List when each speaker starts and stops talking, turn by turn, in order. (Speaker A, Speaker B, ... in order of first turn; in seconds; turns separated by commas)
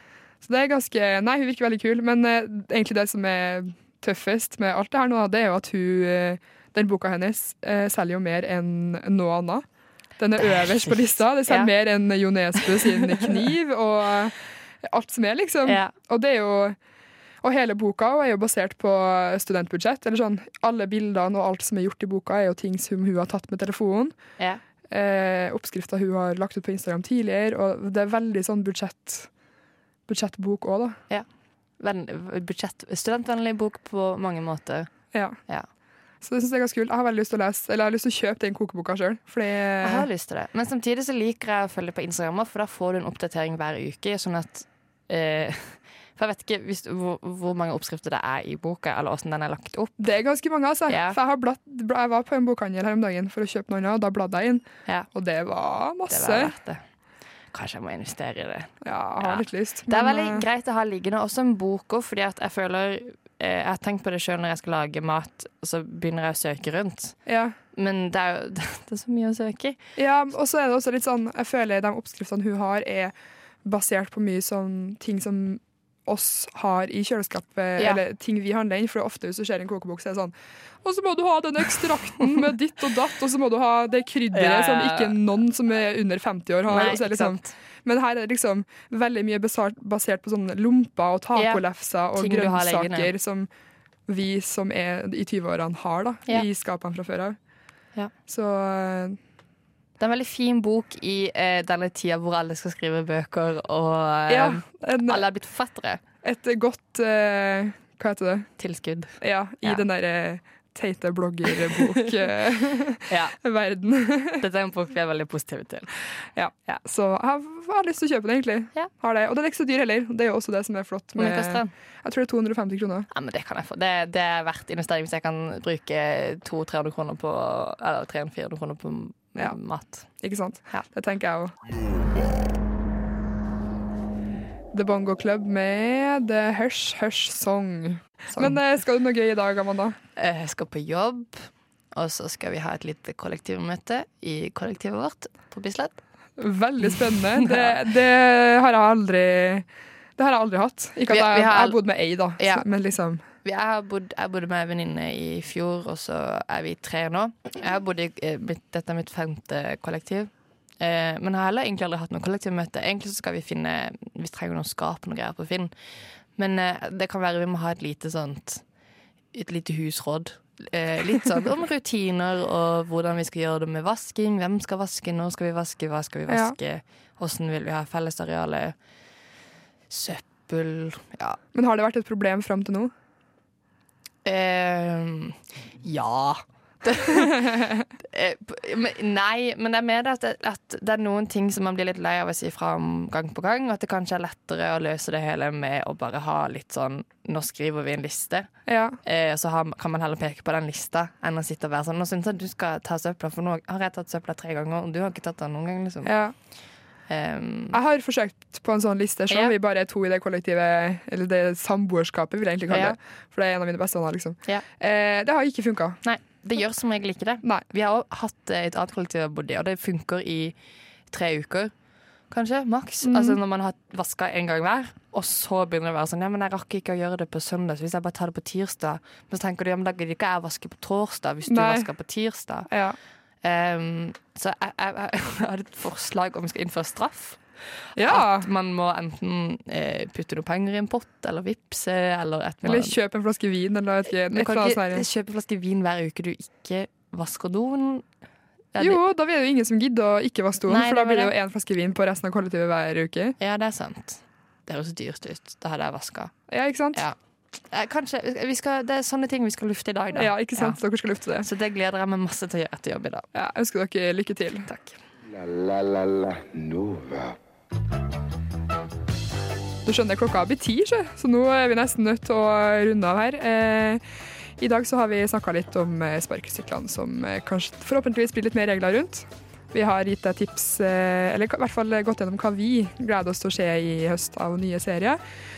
Speaker A: 0.4-9.6, Speaker A: 10.2-16.8, Speaker B: 10.4-11.7, Speaker B: 12.8-13.2, Speaker B: 15.6-15.9, Speaker A: 17.4-24.1, Speaker A: 24.9-29.3, Speaker A: 30.1-31.0, Speaker B: 31.8-34.9, Speaker A: 36.2-40.1, Speaker B: 39.8-50.0, Speaker A: 50.0-56.5, Speaker B: 50.9-51.2, Speaker B: 56.1-56.8, Speaker B: 57.5-67.2, Speaker A: 58.8-60.4, Speaker A: 67.2-67.5, Speaker B: 67.7-69.8, Speaker A: 70.0-93.5, Speaker B: 84.3-85.2, Speaker B: 86.7-87.5, Speaker B: 91.3-91.6, Speaker B: 92.2-93.1, Speaker A: 94.1-97.4, Speaker A: 98.3-99.2, Speaker B: 100.0-106.0, Speaker A: 104.3-105.2, Speaker A: 106.2-108.5, Speaker B: 108.6-109.1, Speaker A: 109.2-114.4, Speaker B: 111.5-111.8, Speaker B: 113.1-113.4, Speaker B: 114.4-115.9, Speaker A: 116.3-123.1, Speaker B: 121.2-121.7, Speaker B: 123.1-130.1, Speaker A: 130.2-131.5, Speaker A: 134.7-140.0, Speaker B: 138.3-138.6, Speaker B: 140.2-146.0, Speaker A: 146.4-153.2, Speaker B: 147.3-147.8, Speaker B: 151.1-151.8, Speaker B: 152.4-152.6, Speaker B: 153.4-165.7, Speaker B: 166.3-168.6, Speaker B: 169.3-178.7, Speaker A: 176.3-176.6, Speaker B: 179.9-181.4, Speaker A: 181.5-182.9, Speaker B: 184.2-206.1, Speaker A: 187.1-187.8, Speaker A: 198.7-199.0, Speaker A: 206.0-206.3, Speaker B: 207.1-207.8, Speaker A: 207.7-216.0, Speaker B: 209.3-209.5, Speaker B: 212.7-212.9, Speaker B: 216.0-220.5, Speaker B: 221.1-221.7, Speaker B: 222.3-232.7, Speaker A: 223.0-223.4, Speaker A: 231.5-231.9, Speaker A: 232.7-233.0, Speaker B: 233.4-237.4, Speaker B: 237.9-243.0, Speaker A: 237.9-238.5, Speaker A: 242.6-245.0, Speaker B: 244.3-248.0, Speaker B: 248.7-249.0, Speaker A: 248.8-253.3, Speaker B: 250.7-251.3, Speaker B: 253.4-256.3, Speaker A: 256.5-257.0, Speaker B: 257.7-260.8, Speaker A: 260.1-261.5, Speaker B: 261.4-263.2, Speaker A: 263.3-264.7, Speaker B: 264.6-265.0, Speaker C: 265.3-267.4, Speaker A: 269.8-274.0, Speaker A: 274.6-285.2